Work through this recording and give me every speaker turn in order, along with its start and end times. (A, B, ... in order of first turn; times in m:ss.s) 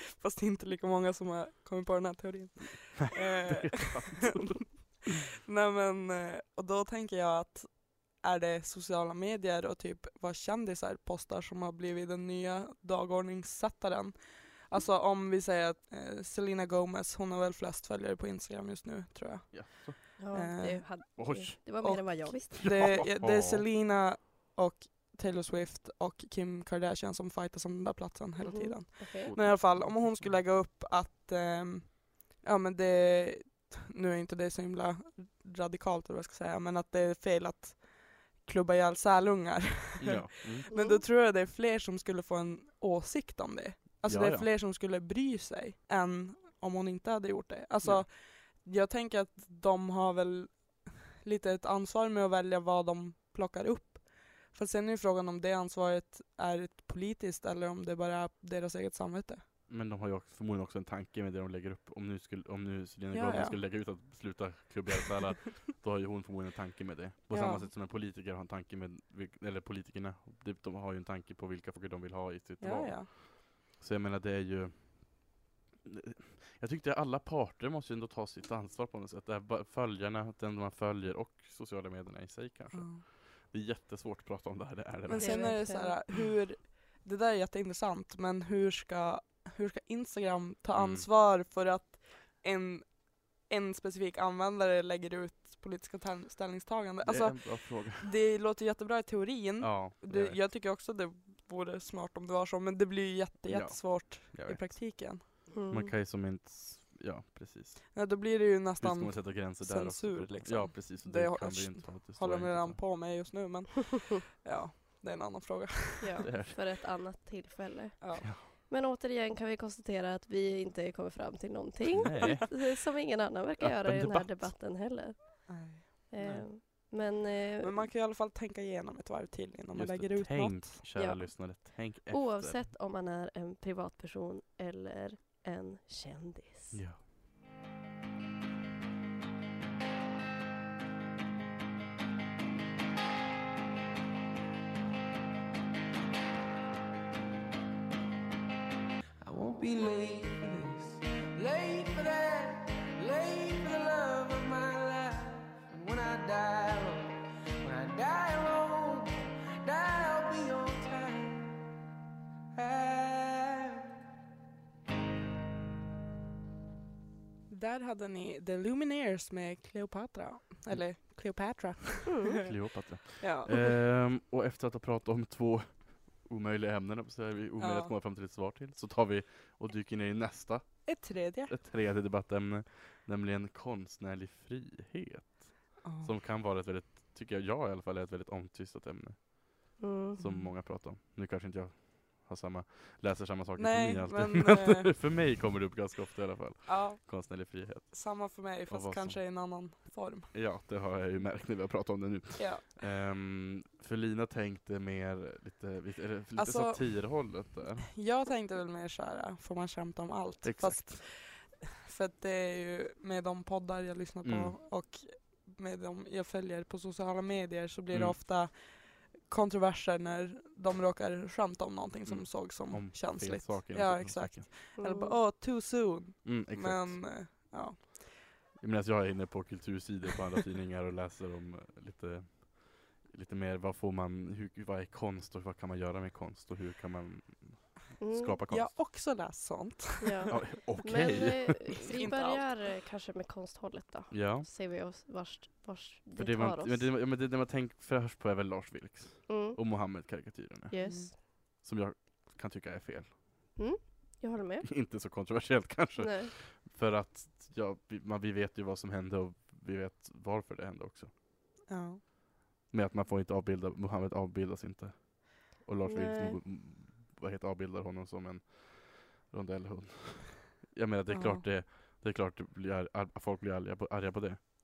0:00.1-0:21.3 A
0:03.5-0:04.6 B
0:19.5-0:20.0 B
0:20.2-0:22.8 C
0:21.2-0:21.8 B
0:21.8-0:59.4 A
0:22.6-0:23.6 B
0:28.4-0:29.4 C
0:29.2-0:30.4 B
0:40.0-0:40.7 B
0:40.7-0:41.0 C
0:44.0-0:44.5 B
0:59.7-1:25.6 B
1:03.1-1:04.0 A
1:07.3-1:07.7 A
1:12.6-1:13.1 A
1:22.7-1:23.0 A
1:25.1-1:45.2 A
1:25.2-1:26.0 C
1:30.8-1:31.1 B
1:37.0-1:38.1 B
1:39.6-1:40.4 B
1:43.5-1:48.0 B
1:45.5-1:45.9 C
1:47.9-1:56.2 A
1:48.8-1:52.8 B
1:56.0-2:07.9 C
1:56.2-1:56.6 B
1:58.0-1:58.3 A
2:02.0-2:02.7 B
2:03.6-2:04.5 B
2:05.5-2:06.9 A
2:06.2-2:06.5 B
2:07.6-2:10.8 A
2:09.7-2:12.6 B
2:11.0-2:16.8 C
2:16.7-2:17.0 B
2:29.2-2:41.6 D
2:42.5-2:43.8 D
2:47.5-2:52.5 A
2:52.1-2:52.4 C
2:52.4-3:19.2 B
2:53.2-2:53.7 A
2:57.6-2:57.9 A
3:00.9-3:01.6 A
3:05.8-3:06.1 A
3:09.8-3:10.2 C
3:10.2-3:10.5 A
3:13.6-3:15.0 A
3:16.7-3:20.3 A
3:20.3-3:27.9 B
3:22.4-3:22.7 A
3:26.4-3:48.1 A
3:30.4-3:31.0 B
3:34.2-3:34.6 B
3:37.9-3:38.2 B
3:42.1-3:44.5 B
3:44.8-3:45.2 C
3:46.2-3:47.2 B
3:48.6-3:58.8 B
3:58.0-3:58.4 C
3:58.5-4:00.4 A
4:00.0-4:06.9 C
4:00.3-4:01.8 B
4:01.8-4:02.6 A
4:04.1-4:04.5 B
4:06.2-4:13.2 B
4:09.3-4:09.9 C
4:10.7-4:11.2 C
4:10.8-4:11.1 A
4:13.6-4:14.7 C
4:14.6-4:21.1 B
4:16.0-4:16.3 C
4:21.7-4:22.0 A
4:22.7-4:34.5 B
4:25.8-4:26.4 C
4:31.1-4:31.5 A